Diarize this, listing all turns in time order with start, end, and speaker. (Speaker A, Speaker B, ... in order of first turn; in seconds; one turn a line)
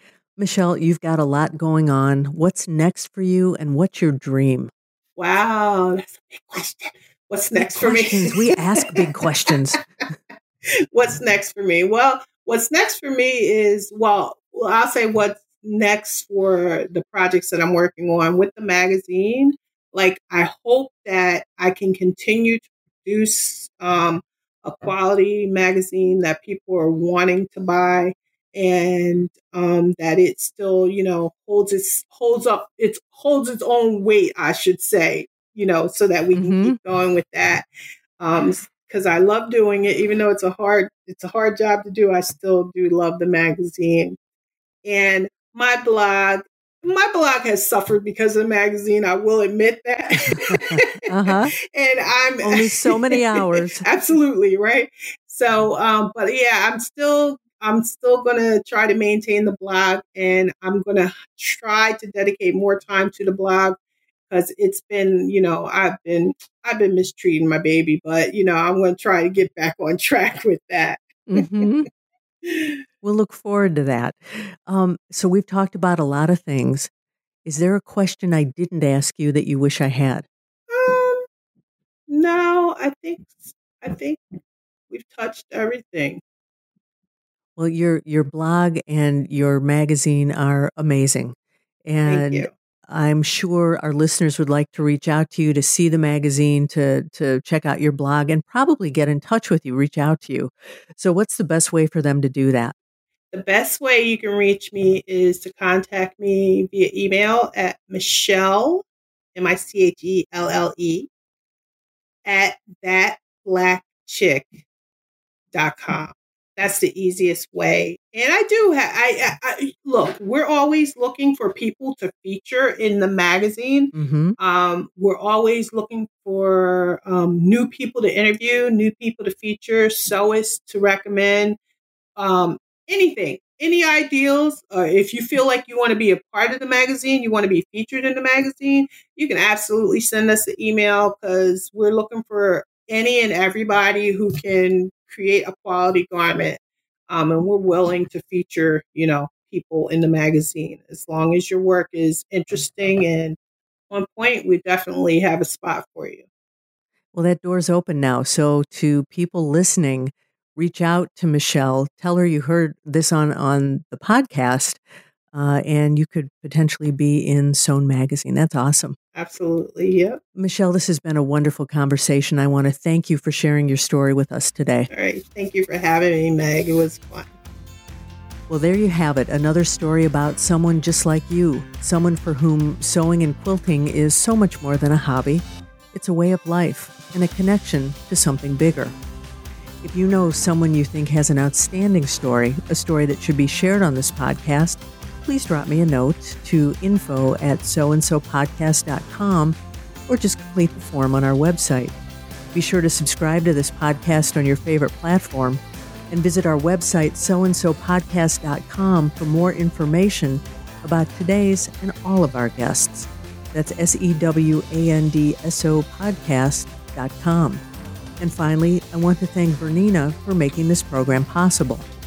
Speaker A: 0.4-4.7
Speaker B: 5.2-9.5
Speaker A: 7.6-9.8
Speaker B: 10.9-37.6
Speaker A: 36.3-36.8
Speaker B: 38.2-44.2
Speaker B: 44.8-63.8
Speaker A: 50.3-51.5
Speaker A: 52.4-53.9
Speaker B: 64.3-71.7
Speaker A: 71.3-71.9
Speaker B: 72.4-72.8
Speaker A: 73.0-76.9
Speaker A: 77.4-80.2
Speaker B: 80.7-81.2
Speaker B: 82.1-84.2
Speaker B: 84.9-86.2
Speaker A: 87.6-102.7
Speaker B: 92.0-92.5
Speaker B: 103.3-111.1
Speaker B: 112.2-114.6
Speaker B: 115.5-131.6
Speaker A: 123.9-124.4
Speaker B: 132.2-153.4
Speaker B: 153.9-156.2
Speaker A: 157.1-164.8
Speaker A: 165.3-168.9
Speaker B: 169.1-170.2
Speaker A: 170.3-174.9
Speaker B: 174.9-177.3
Speaker A: 178.5-188.9
Speaker A: 189.8-199.6
Speaker A: 200.1-201.9
Speaker A: 202.5-217.6
Speaker A: 218.2-221.8